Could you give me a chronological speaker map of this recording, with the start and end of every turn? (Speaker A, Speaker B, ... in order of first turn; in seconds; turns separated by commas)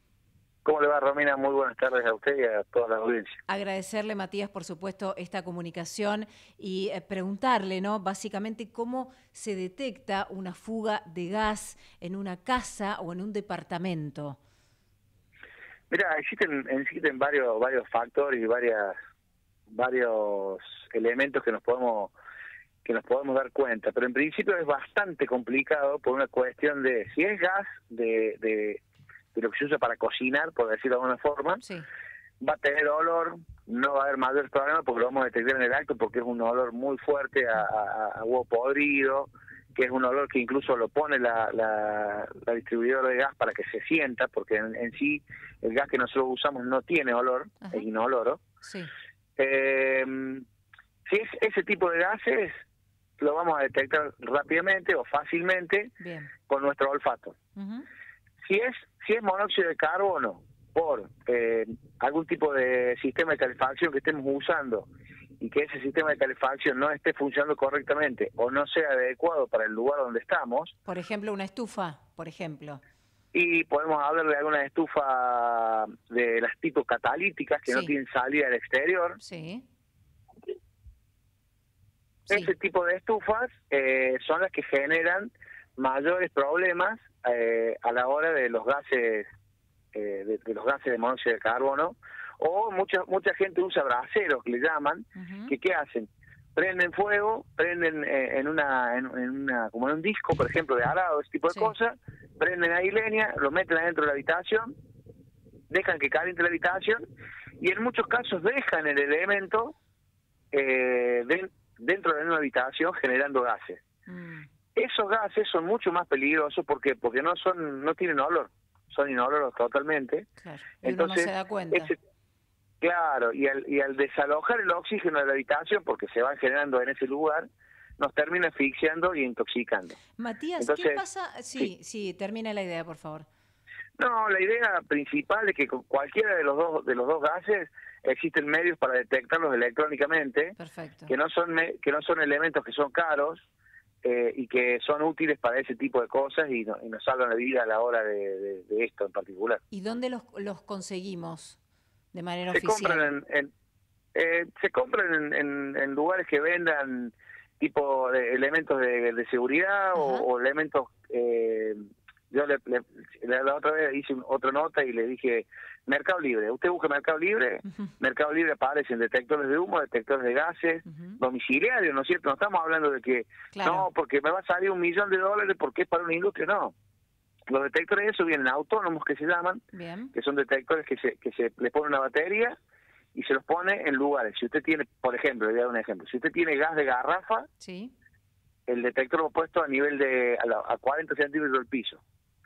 Speaker A: 0.6-3.4, Speaker B: 3.5-14.4, Speaker A: 15.9-18.9, Speaker A: 19.7-22.1, Speaker A: 22.8-28.8, Speaker A: 29.3-31.6, Speaker B: 31.6-31.9, Speaker A: 32.4-48.4, Speaker B: 48.6-48.9, Speaker A: 49.4-50.4, Speaker A: 51.1-52.6, Speaker A: 53.2-55.9, Speaker B: 56.0-56.3, Speaker A: 56.5-57.4, Speaker B: 57.5-57.9, Speaker A: 58.4-64.9, Speaker A: 65.4-70.7, Speaker B: 70.8-72.8, Speaker A: 73.3-79.2, Speaker B: 77.7-77.9, Speaker B: 79.2-79.6, Speaker B: 82.3-82.5, Speaker A: 82.3-89.3, Speaker A: 89.9-104.7, Speaker B: 95.2-95.5, Speaker A: 105.7-107.0, Speaker A: 107.6-109.7, Speaker A: 110.5-113.8, Speaker B: 114.1-114.5, Speaker A: 114.8-120.3, Speaker B: 120.4-121.9, Speaker A: 120.8-121.9, Speaker A: 122.8-127.5, Speaker A: 128.0-130.0, Speaker B: 130.2-133.3, Speaker A: 130.6-131.0, Speaker A: 134.0-140.6, Speaker B: 140.6-141.1, Speaker A: 141.1-143.4, Speaker A: 144.0-149.6, Speaker B: 149.7-151.6, Speaker B: 152.1-153.1, Speaker A: 152.5-153.5, Speaker A: 154.1-176.7, Speaker B: 159.9-160.2, Speaker B: 170.9-171.2, Speaker B: 173.5-173.9, Speaker A: 177.5-182.6, Speaker B: 179.7-180.1, Speaker A: 183.1-187.5, Speaker B: 187.6-187.9, Speaker A: 188.7-192.0